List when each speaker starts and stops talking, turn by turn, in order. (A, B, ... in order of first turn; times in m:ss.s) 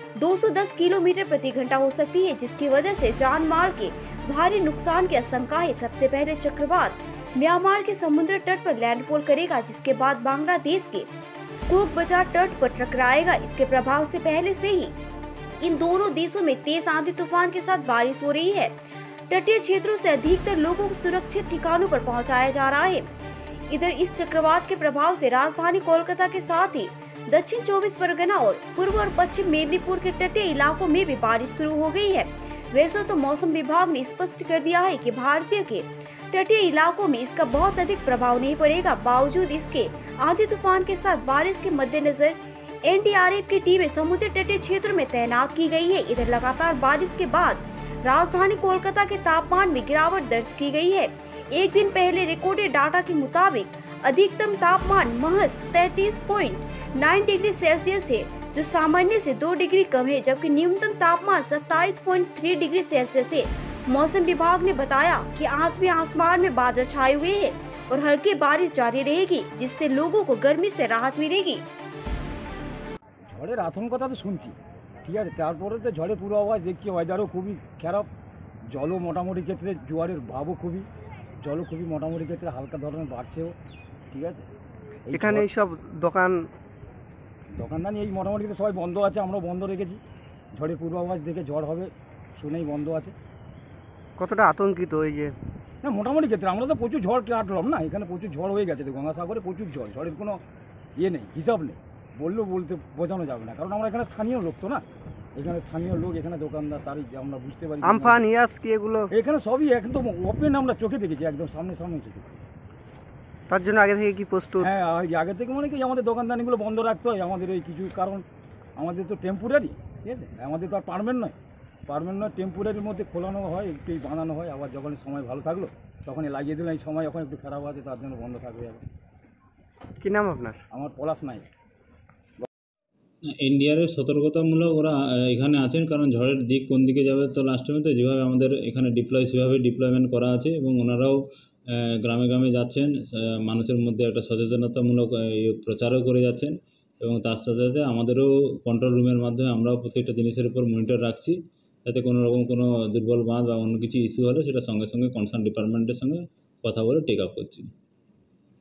0:00.2-0:11.1 A
0:11.7-0:15.0 A
0:15.6-0:18.8 A
0:19.3-0:23.1 A
0:23.7-1:11.6 A
1:13.3-1:18.1 B
1:18.7-1:20.9 B
1:21.4-1:23.6 B
1:24.1-1:24.4 B
1:25.0-1:25.5 B
1:25.1-1:26.5 C
1:27.5-1:30.0 B
1:30.5-1:33.1 B
1:34.2-1:35.3 C
1:35.8-1:40.4 B
1:41.0-1:48.2 B
1:47.8-1:49.1 C
1:49.1-1:52.4 B
1:53.5-1:54.7 C
1:54.6-1:58.2 B
1:58.8-2:01.3 B
2:01.9-2:08.8 B
2:10.0-2:10.6 C
2:10.7-2:11.5 B
2:13.4-2:21.2 D
2:21.7-2:22.9 D
2:23.4-2:37.7 D